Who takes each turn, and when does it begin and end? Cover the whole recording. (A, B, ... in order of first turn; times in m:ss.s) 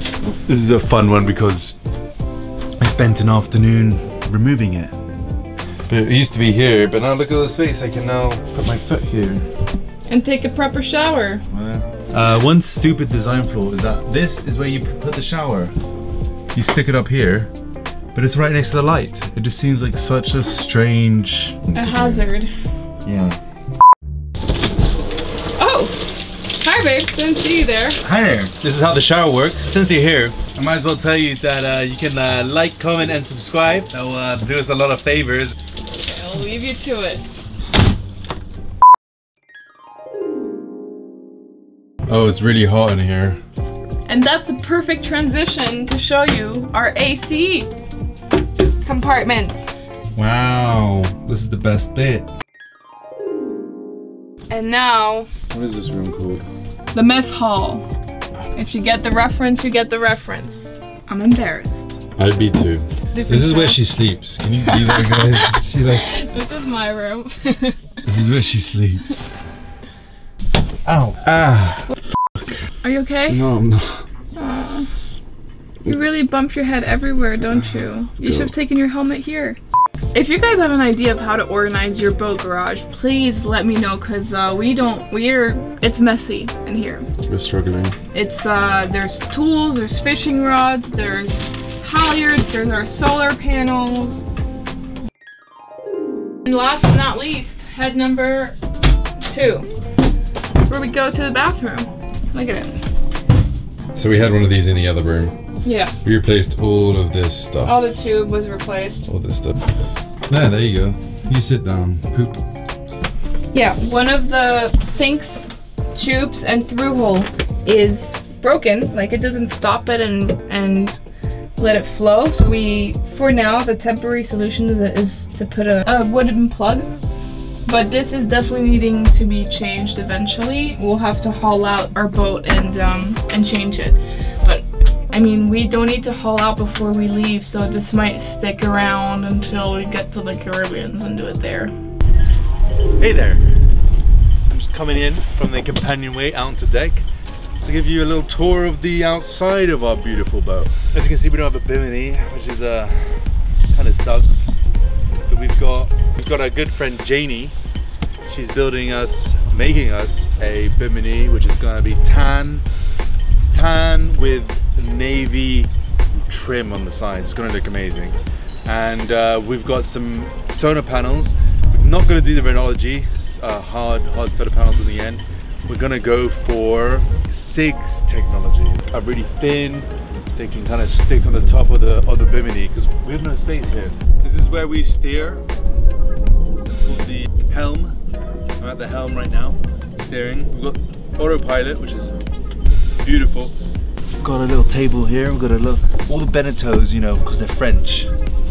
0:00.5-0:01.8 A
0:02.8-0:04.9 A
0:05.9-0:09.5 A
0:10.1-0:11.4 B
0:11.5-0:15.7 A
0:16.5-0:17.5 A
0:18.1-0:22.3 A
0:21.8-0:22.5 B
0:23.0-0:23.4 A
0:25.6-0:28.0 B
0:28.0-0:35.6 A
0:36.0-0:37.2 B
0:42.1-0:43.4 A
0:44.1-0:47.7 B
0:48.8-0:49.7 B
0:50.2-0:52.3 A
0:54.5-0:55.3 B
0:55.5-0:56.5 A
0:56.9-0:57.9 B
0:58.5-1:02.0 B
1:02.2-1:06.2 A
1:03.1-1:03.8 B
1:04.6-1:07.8 B
1:08.1-1:09.3 A
1:10.8-1:12.4 A
1:12.8-1:13.4 B
1:13.3-1:14.0 A
1:14.4-1:14.9 B
1:15.8-1:19.6 B
1:17.8-1:18.5 A
1:20.1-1:27.1 B
1:27.2-1:28.0 A
1:28.1-1:34.2 B
1:36.4-1:38.6 B
1:39.2-1:39.7 B
1:40.6-1:42.8 B
1:44.0-1:45.4 A
1:45.6-1:46.0 B
1:46.0-1:47.8 A
1:47.6-1:49.1 B
1:49.1-1:49.6 A
1:50.3-1:52.4 A
1:53.5-2:01.0 B
2:01.6-2:06.9 B
2:07.7-2:21.7 B
2:23.0-2:23.6 A
2:24.5-2:27.1 A
2:27.6-2:34.6 A
2:35.3-2:37.5 A
2:38.3-2:42.6 A
2:43.5-3:05.5 A
3:06.7-3:08.0 A
3:08.6-3:12.2 A
3:13.0-3:13.5 A
3:14.2-3:18.1 A